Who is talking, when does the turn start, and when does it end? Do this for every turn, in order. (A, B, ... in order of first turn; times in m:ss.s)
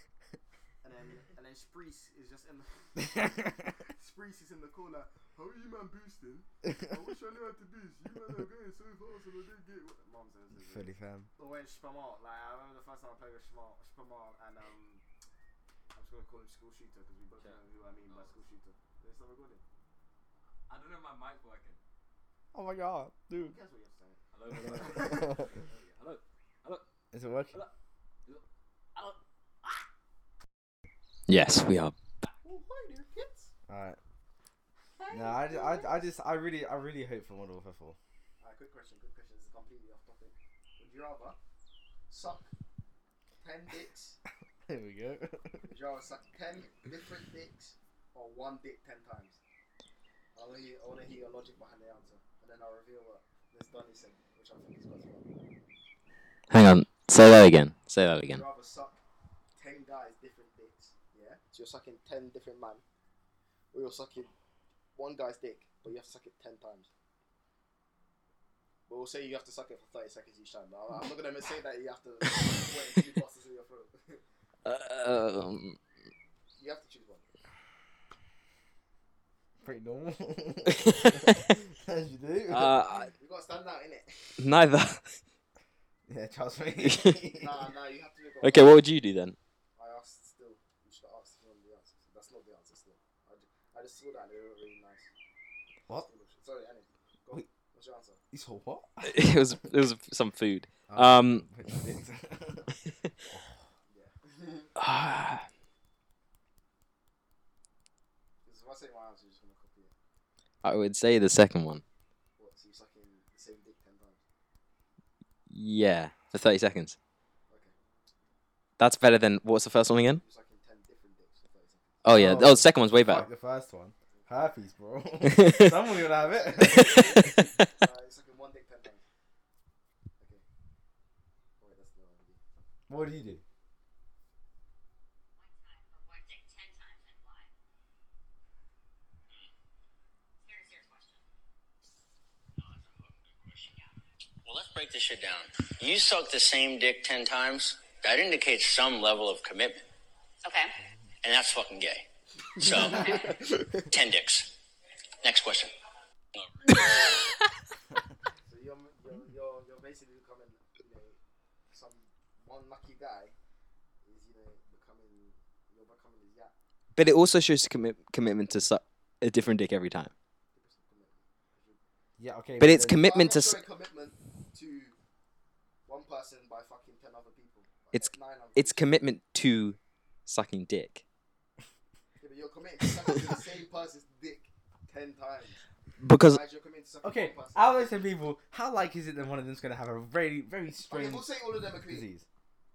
0:00.8-0:15.0 A
0:03.0-0:03.5 B
0:10.6-0:11.3 B
0:15.9-0:19.6 A
0:17.4-0:18.4 C
0:20.7-0:21.8 C
0:22.5-0:23.6 B
0:23.3-0:25.5 A
0:24.3-0:26.8 C
0:24.7-0:25.4 B
0:27.1-0:27.6 B
0:29.0-0:29.9 C
0:31.3-0:32.0 D
0:32.4-0:33.5 A
0:33.7-0:34.0 B
0:35.0-0:36.1 A
0:35.1-0:38.0 B
0:38.4-0:41.4 A
0:42.1-0:42.5 A
0:43.4-0:44.2 A
0:44.7-0:45.7 B
0:45.6-0:49.4 A
0:50.4-0:55.3 A
0:56.5-0:58.4 D
0:58.3-0:59.0 A
0:59.6-1:02.8 A
1:03.7-1:04.3 A
1:05.0-1:06.9 A
1:08.9-1:14.2 A
1:14.6-1:15.8 D
1:16.6-1:17.2 A
1:19.6-1:22.8 B
1:20.7-1:21.5 D
1:22.5-1:23.1 D
1:23.1-1:24.5 A
1:24.4-1:25.2 D
1:26.1-1:27.6 B
1:26.8-1:27.2 D
1:27.3-1:28.8 A
1:28.4-1:29.4 D
1:29.8-1:35.1 A
1:36.0-1:38.2 A
1:38.3-1:39.6 B
1:39.0-1:41.8 D
1:40.9-1:43.6 B
1:43.9-1:44.7 A
1:44.8-1:45.5 D
1:48.4-1:49.9 A
1:50.6-1:51.8 D
1:52.4-1:54.2 A
1:55.5-1:57.0 D
1:57.5-1:57.7 A
1:58.8-2:00.2 D
2:00.2-2:02.0 A
2:02.0-2:03.3 D
2:02.1-2:07.4 B
2:04.1-2:04.5 A
2:05.3-2:05.7 D
2:06.2-2:09.0 A
2:06.6-2:07.5 D
2:10.2-2:10.4 A
2:11.6-2:12.4 A
2:12.9-2:13.4 B
2:15.3-2:17.5 E
2:20.4-2:21.2 E
2:22.6-2:23.7 F
2:24.4-2:29.9 F
2:30.4-2:30.8 E
2:31.2-2:33.3 F
2:32.6-2:33.1 A
2:32.8-2:33.3 E
2:33.9-2:34.5 F
2:35.2-2:35.7 F
2:36.4-2:37.3 F
2:38.4-2:41.2 A
2:41.7-2:43.3 A
2:44.0-2:46.5 A
2:47.0-2:50.1 D
2:50.6-2:51.8 A
2:52.2-2:53.0 B
2:52.6-2:53.6 D
2:52.9-2:55.0 A
2:55.9-2:59.0 A
2:57.9-3:01.0 D
3:02.2-3:07.8 A
3:06.0-3:06.4 D
3:07.0-3:12.3 B
3:10.8-3:12.1 A